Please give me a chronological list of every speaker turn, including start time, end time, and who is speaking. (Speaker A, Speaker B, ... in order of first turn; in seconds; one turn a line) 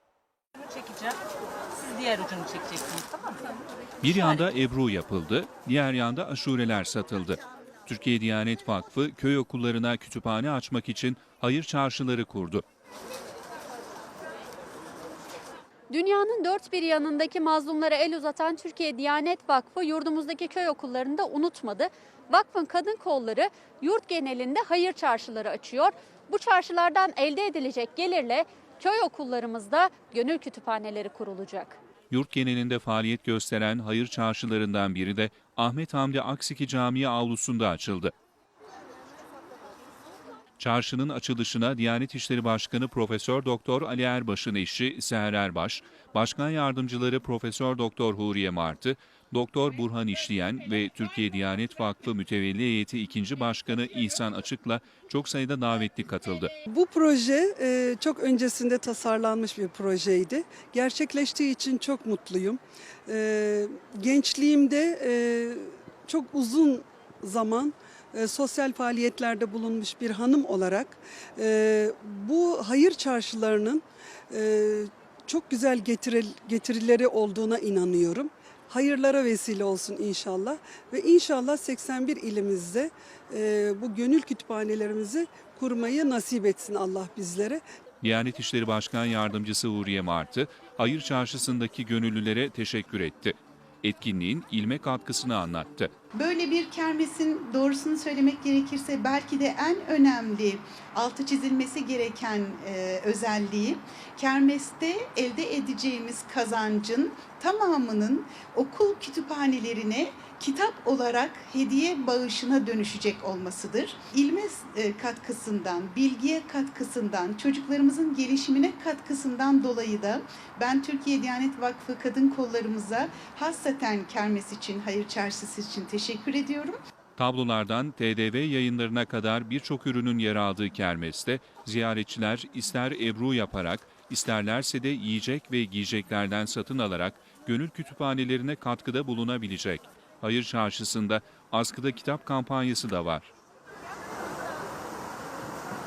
Speaker A: 0.7-1.2
Speaker A: 1.7-3.4
Speaker B: 4.0-12.6
Speaker C: 15.9-31.8
Speaker B: 32.1-38.1
Speaker B: 40.6-56.5
Speaker D: 56.7-87.6
Speaker B: 88.0-95.9
Speaker E: 96.1-126.8
Speaker B: 127.2-143.3